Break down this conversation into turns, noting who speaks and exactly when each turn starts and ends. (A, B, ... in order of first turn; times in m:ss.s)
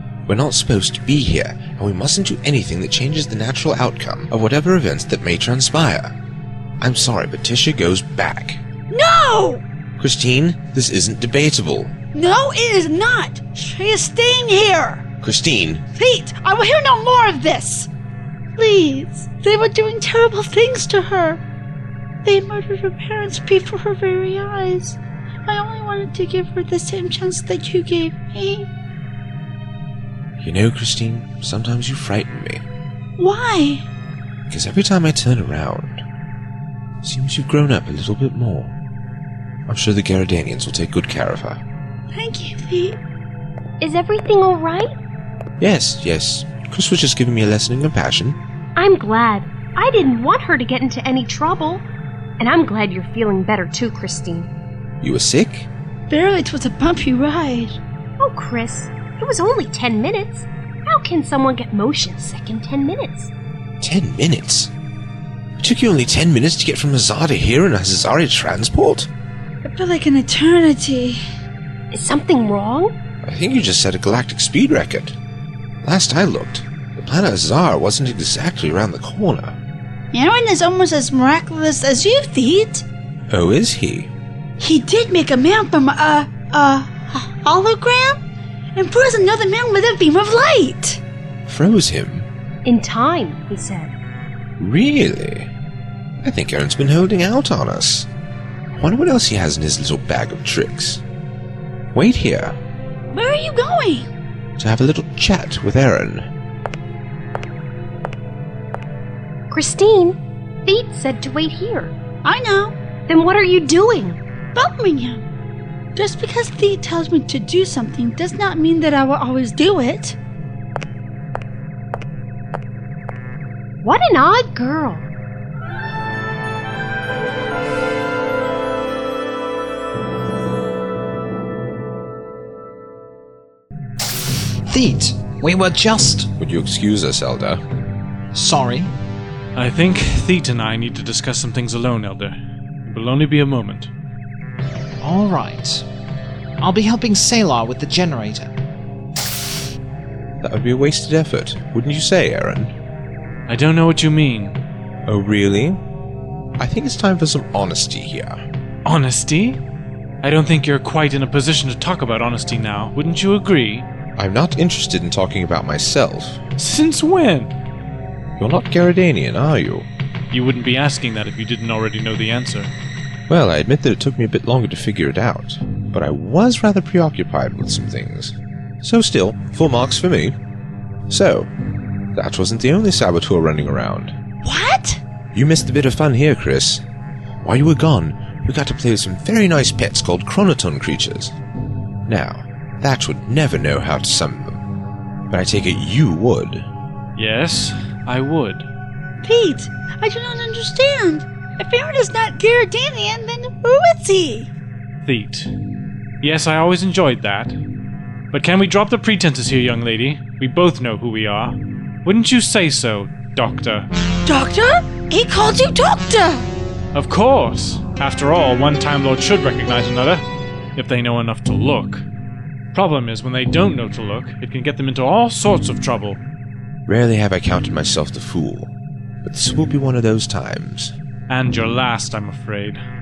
0:00.3-0:06.1 A
0:06.8-0:08.6 A
0:08.9-0:09.6 B
0:10.0-0:12.0 A
0:12.1-0:15.0 B
0:15.2-0:15.8 A
0:16.0-0:17.9 B
0:18.6-0:21.4 B
0:22.2-0:28.7 B
0:30.4-0:32.6 A
0:33.2-0:33.8 B
0:34.5-0:36.0 A
0:37.0-0:38.7 A
0:39.7-0:41.6 A
0:42.1-0:43.0 B
0:43.8-0:44.9 C
0:45.6-0:48.4 A
0:48.8-0:51.8 C
0:52.4-0:54.5 C
0:55.0-0:55.7 A
0:56.1-0:57.8 B
0:58.2-1:03.3 C
1:03.8-1:04.7 A
1:05.6-1:09.1 A
1:09.6-1:11.2 B
1:11.9-1:12.9 C
1:13.2-1:15.1 A
1:15.8-1:19.6 A
1:20.1-1:22.8 B
1:23.3-1:24.1 A
1:24.6-1:28.2 B
1:28.8-1:31.0 B
1:31.5-1:32.3 A
1:32.6-1:33.9 C
1:34.6-1:35.5 A
1:36.2-1:38.1 A
1:38.8-1:41.0 A
1:41.9-1:42.6 A
1:43.1-1:44.1 B
1:44.6-1:46.3 A
1:49.5-1:51.9 C
1:52.2-1:52.7 B
1:53.1-1:54.2 C
1:54.5-1:55.2 B
1:56.0-2:00.2 B
2:03.8-2:05.0 C
2:14.7-2:16.3 D
2:16.4-2:17.6 A
2:18.3-2:18.9 D
2:19.5-2:23.9 E
2:25.0-2:25.8 D
2:26.6-2:28.5 D
2:30.4-2:32.8 A
2:33.5-2:34.6 E
2:35.0-2:35.8 A
2:36.6-2:38.4 A
2:38.8-2:39.6 E
2:40.2-2:43.9 E
2:44.2-2:46.4 A
2:46.6-2:47.5 E
2:48.4-2:49.9 A
2:50.3-2:52.7 E
2:53.3-3:00.4 A
3:01.1-3:01.5 A
3:02.2-3:04.1 A
3:04.4-3:05.0 B
3:05.3-3:06.8 A
3:07.4-3:11.3 A
3:12.1-3:14.7 A
3:15.3-3:16.7 A
3:17.2-3:18.7 E
3:19.2-3:24.5 B
3:25.0-3:25.5 E
3:26.2-3:27.6 E
3:28.3-3:33.9 E
3:34.2-3:36.5 B
3:36.9-3:40.2 E
3:40.8-3:42.0 E
3:42.7-3:46.2 E
3:46.8-3:50.9 A
3:51.3-3:52.8 E